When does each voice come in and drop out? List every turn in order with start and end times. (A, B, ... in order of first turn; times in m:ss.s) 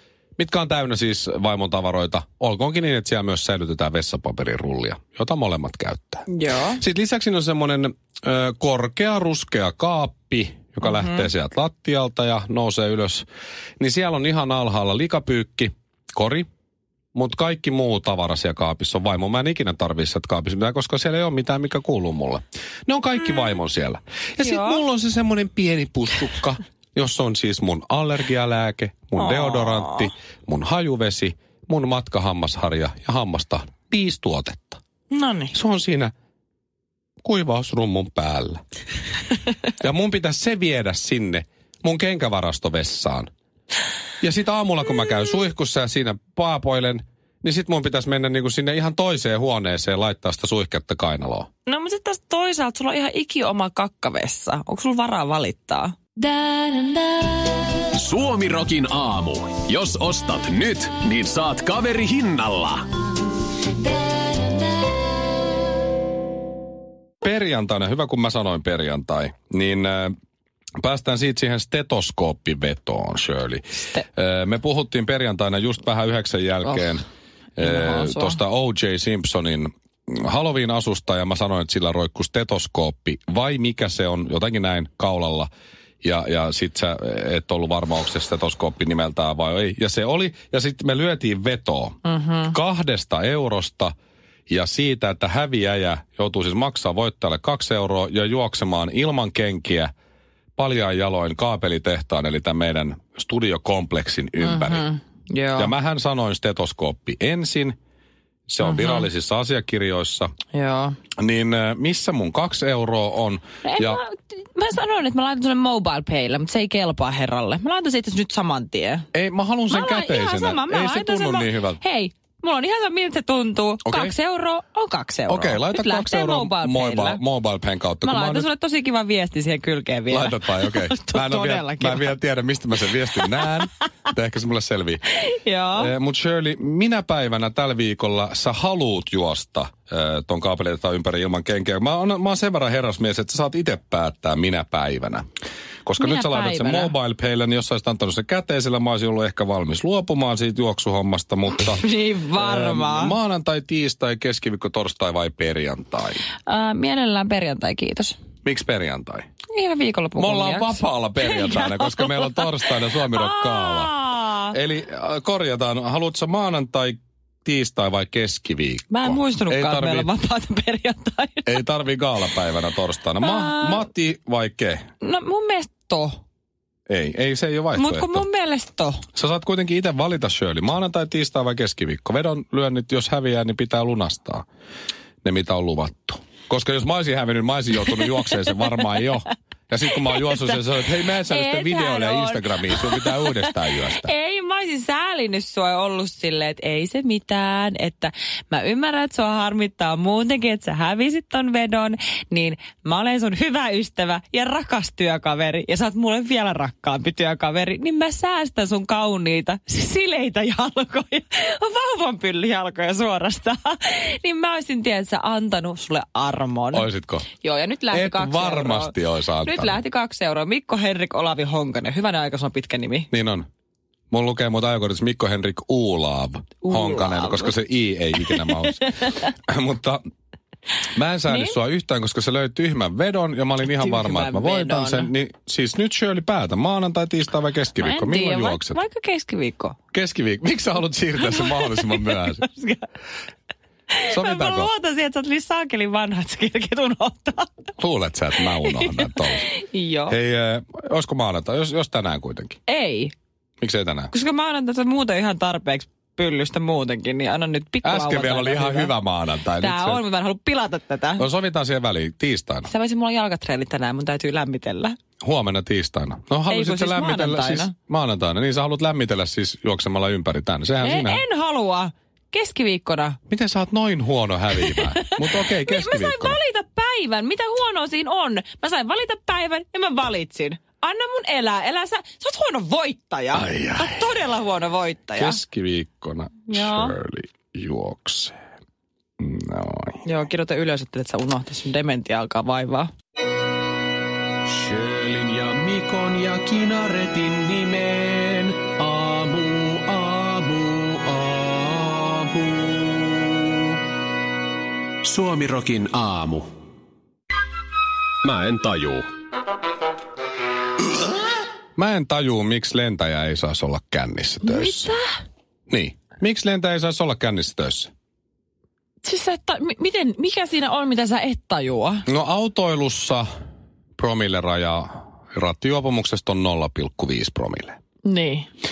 0:00.4-0:06.2 A
0:06.3-0:06.8 B
0:06.8-0:13.3 A
0:10.8-0:11.3 B
0:13.8-0:16.5 A
0:17.2-0:34.8 A
0:24.4-0:24.8 B
0:29.2-0:30.1 B
0:35.1-0:35.6 B
0:35.5-0:36.1 A
0:37.2-0:38.6 A
0:39.8-0:43.3 A
0:44.2-0:51.5 A
0:51.7-0:57.3 B
0:58.0-1:02.9 C
1:07.2-1:10.1 A
1:10.8-1:17.0 A
1:17.6-1:25.5 A
1:17.6-1:18.4 B
1:26.0-1:33.9 A
1:32.1-1:32.5 B
1:34.5-1:39.9 A
1:40.6-1:44.9 A
1:44.4-1:45.7 B
1:45.6-1:47.8 A
1:48.5-1:50.3 A
1:48.6-1:49.1 B
1:50.5-1:51.0 B
1:51.2-1:54.0 A
1:53.6-1:59.1 B
1:59.1-2:01.8 A
1:59.7-2:07.2 B
2:03.8-2:04.1 A
2:05.3-2:08.5 A
2:08.0-2:12.2 B
2:10.1-2:15.0 A
2:15.2-2:15.9 B
2:15.8-2:25.2 A
2:25.9-2:31.8 A
2:26.0-2:26.9 B
2:31.6-2:33.2 B
2:32.4-2:36.2 A
2:36.5-2:38.2 B
2:38.4-2:39.3 A
2:39.5-2:44.6 B
2:40.2-2:44.0 A
2:44.5-2:50.1 A
2:48.9-2:51.6 B
2:51.5-2:54.8 A
2:53.2-2:53.9 B
2:55.0-2:56.2 B
2:56.9-2:58.2 A
2:57.8-2:59.0 B
2:59.2-3:04.4 A
3:05.2-3:14.1 A
3:10.1-3:10.5 B
3:11.3-3:36.9 B
3:36.7-3:37.3 A
3:37.4-3:43.1 B
3:37.9-3:39.8 A
3:43.1-3:43.5 A
3:44.1-3:50.0 A
3:46.6-3:47.5 B
3:48.2-3:49.1 B
3:50.9-3:58.8 A
3:51.3-3:51.6 B
3:53.7-3:55.1 B
3:57.8-3:59.8 B
3:59.9-4:02.5 A
4:01.2-4:02.8 B
4:03.9-4:07.6 B
4:04.1-4:04.7 A
4:07.8-4:09.5 A
4:08.4-4:10.2 B
4:10.1-4:12.6 A
4:12.7-4:13.1 B
4:13.6-4:14.1 A
4:14.1-4:19.0 B
4:17.8-4:20.0 A
4:19.6-4:21.2 B
4:21.2-4:22.7 A
4:22.6-4:25.0 B
4:25.2-4:31.2 A
4:26.5-4:27.7 B
4:30.8-4:33.2 B
4:33.3-4:36.4 A
4:34.5-4:45.4 B
4:43.3-4:44.2 A
4:45.1-4:48.4 A
4:46.5-4:47.0 B
4:49.2-4:50.0 A
4:50.0-4:52.9 B
4:54.5-5:03.8 C
5:05.0-5:06.5 C
5:08.2-5:09.1 C
5:11.8-5:14.9 A
5:14.4-5:15.2 B
5:15.7-5:17.9 A
5:19.0-5:22.1 B
5:22.1-5:23.2 A
5:24.0-5:27.8 A
5:28.0-5:28.5 B